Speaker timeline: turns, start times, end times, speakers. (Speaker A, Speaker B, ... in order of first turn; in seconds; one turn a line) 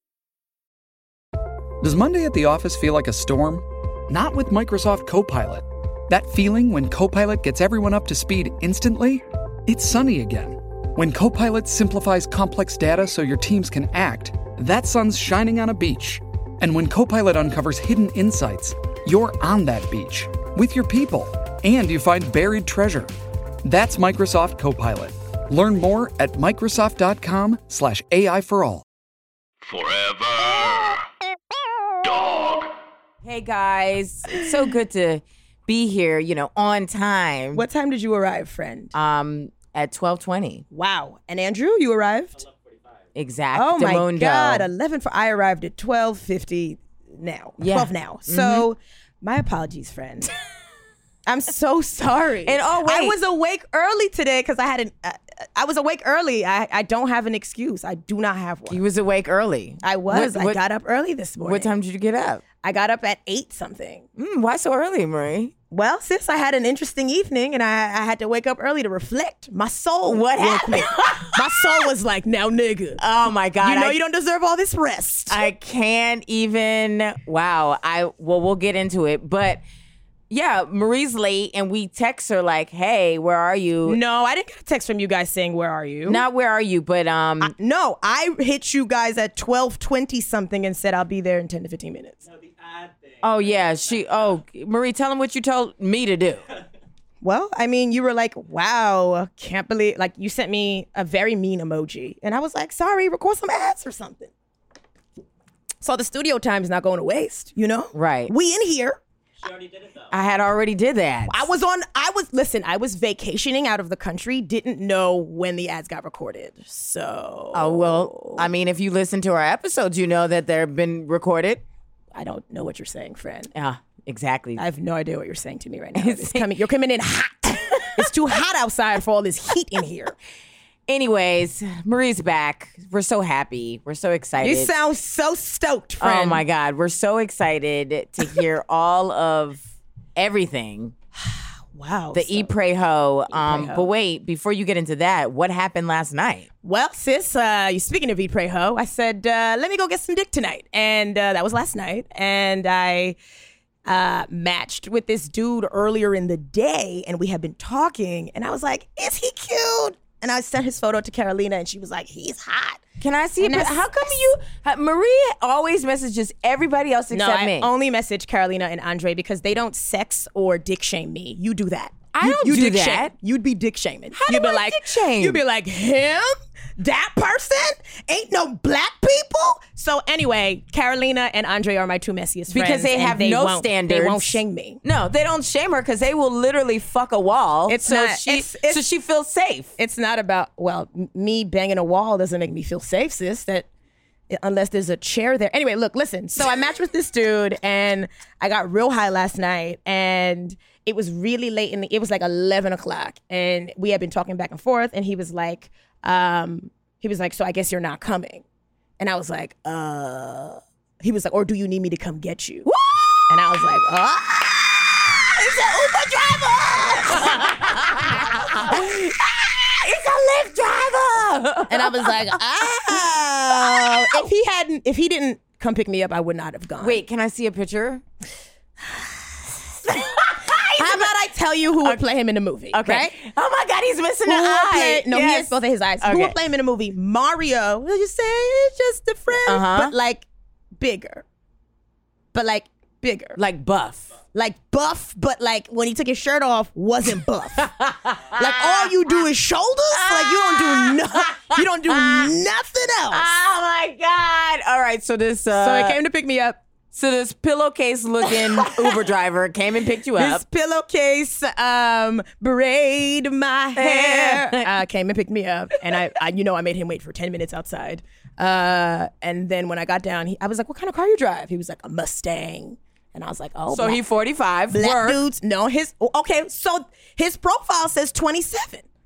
Speaker A: 1.8-23.1
Speaker A: 23.6-28.8
Speaker B: 33.2-37.6
Speaker C: 37.5-38.9
Speaker B: 38.9-40.6
Speaker C: 40.7-42.4
Speaker B: 43.1-44.7
Speaker C: 43.5-50.3
Speaker B: 47.6-48.6
Speaker C: 51.2-58.8
Speaker B: 52.4-53.2
Speaker B: 58.7-60.6
Speaker C: 59.8-61.7
Speaker B: 61.4-62.4
Speaker C: 62.6-64.0
Speaker B: 64.2-65.5
Speaker C: 65.7-73.0
Speaker B: 70.0-71.6
Speaker B: 73.0-74.0
Speaker C: 73.6-75.5
Speaker B: 75.3-79.6
Speaker B: 80.3-84.0
Speaker C: 83.8-86.2
Speaker B: 86.0-87.5
Speaker C: 87.4-92.2
Speaker B: 93.2-96.4
Speaker C: 97.2-104.3
Speaker C: 105.8-109.0
Speaker B: 107.9-108.3
Speaker B: 110.1-111.5
Speaker C: 111.3-118.4
Speaker B: 117.5-121.6
Speaker C: 122.1-123.5
Speaker B: 123.5-124.6
Speaker C: 124.6-130.1
Speaker B: 125.9-126.5
Speaker B: 130.9-134.7
Speaker C: 134.4-136.4
Speaker B: 136.0-139.6
Speaker B: 140.2-140.9
Speaker C: 141.3-142.5
Speaker B: 142.1-146.5
Speaker C: 143.3-143.9
Speaker C: 146.6-153.2
Speaker C: 153.8-162.8
Speaker B: 163.0-167.7
Speaker C: 163.4-164.1
Speaker C: 167.1-184.8
Speaker B: 172.1-173.1
Speaker B: 174.1-175.4
Speaker B: 182.5-189.7
Speaker C: 187.7-188.8
Speaker C: 189.8-193.7
Speaker C: 194.3-208.4
Speaker C: 209.0-212.7
Speaker B: 212.7-213.3
Speaker C: 213.3-214.9
Speaker B: 215.3-224.2
Speaker C: 215.6-217.5
Speaker C: 218.4-218.8
Speaker C: 221.7-227.0
Speaker B: 226.8-228.0
Speaker B: 229.9-231.1
Speaker C: 230.8-233.2
Speaker B: 232.7-236.3
Speaker C: 234.2-240.2
Speaker B: 239.4-239.9
Speaker C: 240.8-241.2
Speaker C: 242.3-243.4
Speaker B: 243.4-244.1
Speaker C: 244.3-247.7
Speaker B: 247.6-248.9
Speaker C: 248.3-253.3
Speaker B: 249.9-252.3
Speaker B: 253.1-256.0
Speaker C: 255.5-256.6
Speaker B: 256.9-260.4
Speaker C: 258.2-259.0
Speaker C: 260.1-274.0
Speaker B: 263.8-264.7
Speaker B: 273.7-275.2
Speaker C: 274.7-278.8